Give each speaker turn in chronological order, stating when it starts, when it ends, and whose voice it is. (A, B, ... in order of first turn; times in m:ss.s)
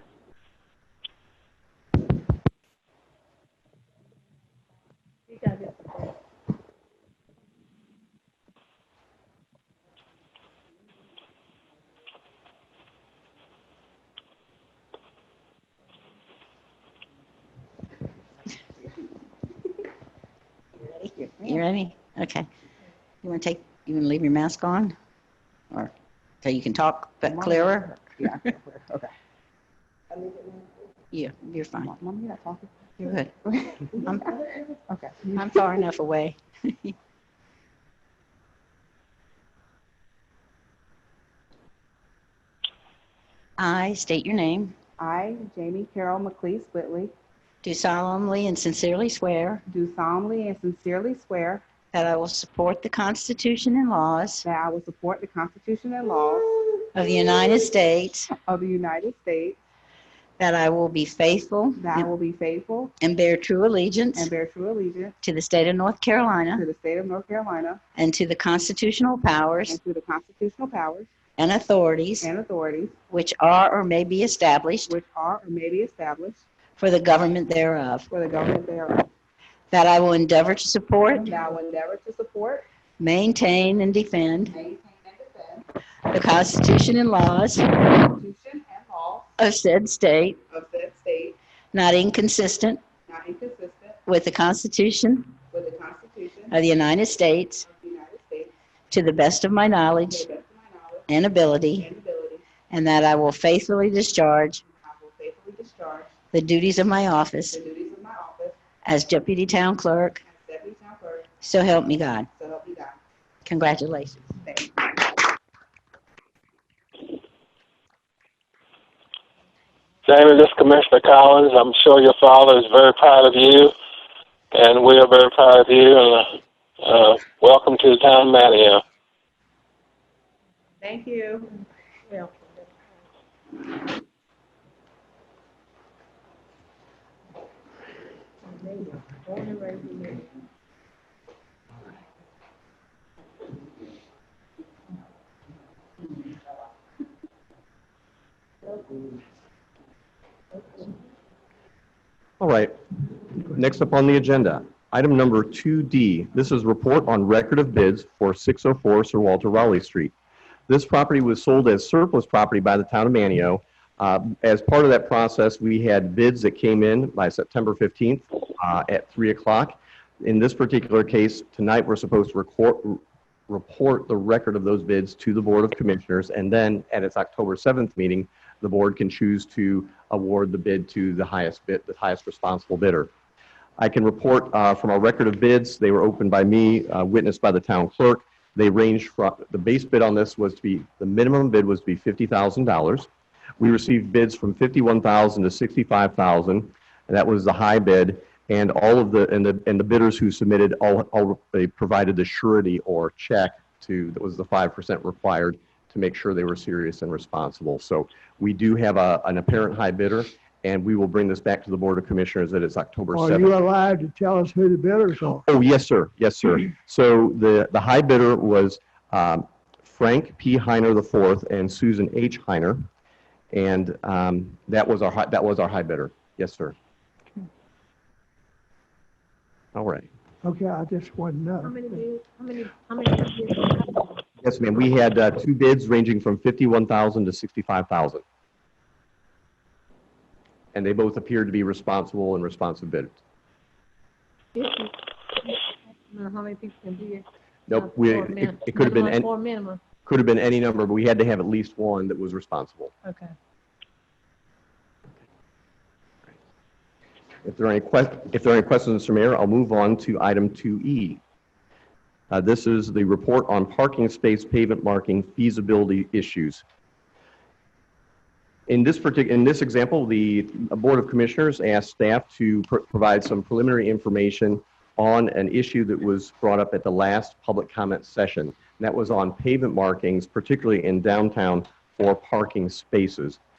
0:05.3-0:06.1 A
0:20.9-0:22.5 B
0:23.2-0:24.9 B
0:25.7-0:28.4 B
0:27.3-0:29.1 C
0:30.2-0:30.6 C
0:31.1-0:31.9 B
0:31.8-0:35.8 C
0:33.0-0:34.3 B
0:35.4-0:36.9 B
0:43.6-0:44.7 B
0:45.0-0:47.1 C
0:47.6-0:49.6 B
0:49.7-0:51.7 C
0:51.9-0:54.5 B
0:54.4-0:56.7 C
0:56.9-0:58.3 B
0:58.4-0:59.6 C
1:00.4-1:02.1 B
1:01.8-1:02.9 C
1:03.0-1:04.3 B
1:04.2-1:05.1 C
1:05.2-1:06.7 B
1:06.6-1:07.8 C
1:08.0-1:09.8 B
1:09.7-1:11.1 C
1:11.4-1:12.3 B
1:12.2-1:13.0 C
1:13.1-1:15.0 B
1:14.9-1:16.4 C
1:16.8-1:18.1 B
1:18.1-1:19.1 C
1:19.7-1:21.3 B
1:21.0-1:22.6 C
1:23.0-1:24.6 B
1:24.5-1:25.7 C
1:26.1-1:27.8 B
1:27.9-1:29.3 C
1:29.4-1:30.4 B
1:30.5-1:31.4 C
1:31.7-1:32.8 B
1:33.1-1:34.0 C
1:34.0-1:35.3 B
1:35.5-1:36.5 C
1:36.5-1:37.7 B
1:37.6-1:38.5 C
1:38.9-1:40.3 B
1:40.1-1:41.1 C
1:41.1-1:41.9 B
1:41.8-1:42.4 C
1:42.7-1:44.6 B
1:44.7-1:46.1 C
1:46.3-1:47.6 B
1:47.5-1:48.6 C
1:48.8-1:50.2 B
1:50.3-1:51.3 C
1:51.4-1:52.3 B
1:52.3-1:53.0 C
1:53.4-1:54.3 B
1:54.4-1:55.2 C
2:00.0-2:03.7 D
2:04.5-2:06.3 D
2:06.8-2:08.8 D
2:10.8-2:11.5 C
2:12.1-2:12.7 A
2:18.5-2:20.4 A
2:32.4-2:32.7 E
2:33.4-2:40.1 E
2:40.7-3:03.1 E
3:03.8-3:13.1 E
3:13.6-3:33.5 E
3:33.1-3:35.4 F
3:35.4-3:42.8 E
3:43.5-3:46.7 E
3:49.7-3:50.1 E
3:50.4-3:52.0 F
3:51.6-3:54.2 A
3:54.4-3:58.2 E
4:00.7-4:03.2 E
4:04.6-4:04.9 A
4:06.1-4:09.8 A
4:07.7-4:09.3 E
4:10.0-4:12.9 E
4:13.0-4:13.3 A
4:17.4-4:21.2 E
4:22.3-4:26.6 E
4:28.7-4:43.4 E